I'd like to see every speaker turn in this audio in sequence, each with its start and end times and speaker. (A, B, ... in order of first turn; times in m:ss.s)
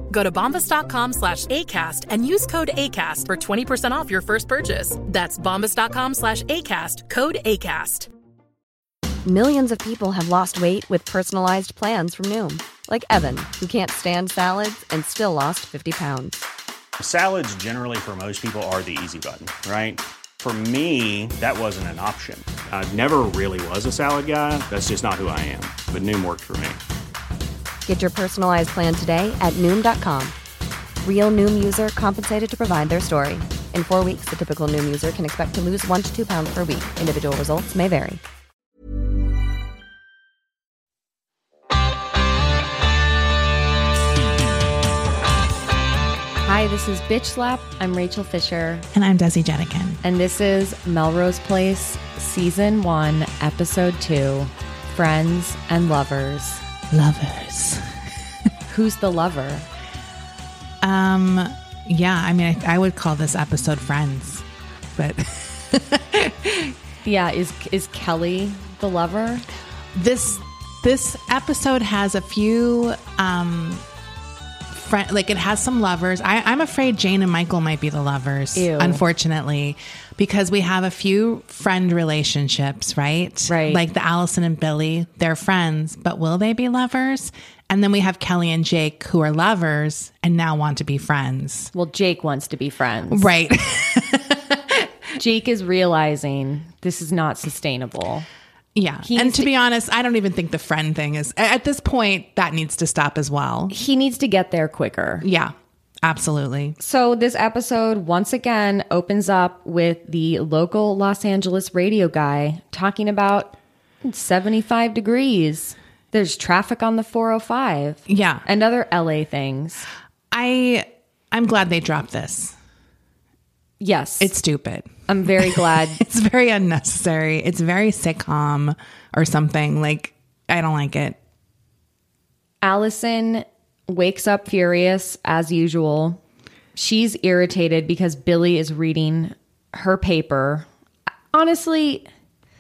0:00.1-0:08.1 A
0:09.3-0:16.4 B
0:17.0-0:26.8 C
0:27.9-0:30.4 B
0:31.0-0:38.2 B
0:46.4-0:48.9 D
0:48.9-0:50.0 E
0:50.0-0:56.6 D
0:56.9-0:57.9 E
0:58.7-0:59.7 D
1:00.8-1:06.8 E
1:07.0-1:09.5 D
1:09.9-1:13.8 E
1:14.7-1:31.7 E
1:18.6-1:19.0 D
1:23.5-1:23.8 D
1:31.7-1:33.3 D
1:33.1-1:34.9 E
1:35.2-1:38.3 D
1:38.8-1:43.7 E
1:39.0-1:39.5 D
1:43.7-1:45.2 D
1:45.2-1:46.8 E
1:46.8-1:59.9 D
1:58.1-1:58.4 E
2:00.3-2:02.6 E
2:03.8-2:04.4 D
2:04.2-2:11.2 E
2:05.1-2:06.0 D
2:12.6-2:16.2 D
2:16.8-2:20.7 D
2:21.3-2:22.1 D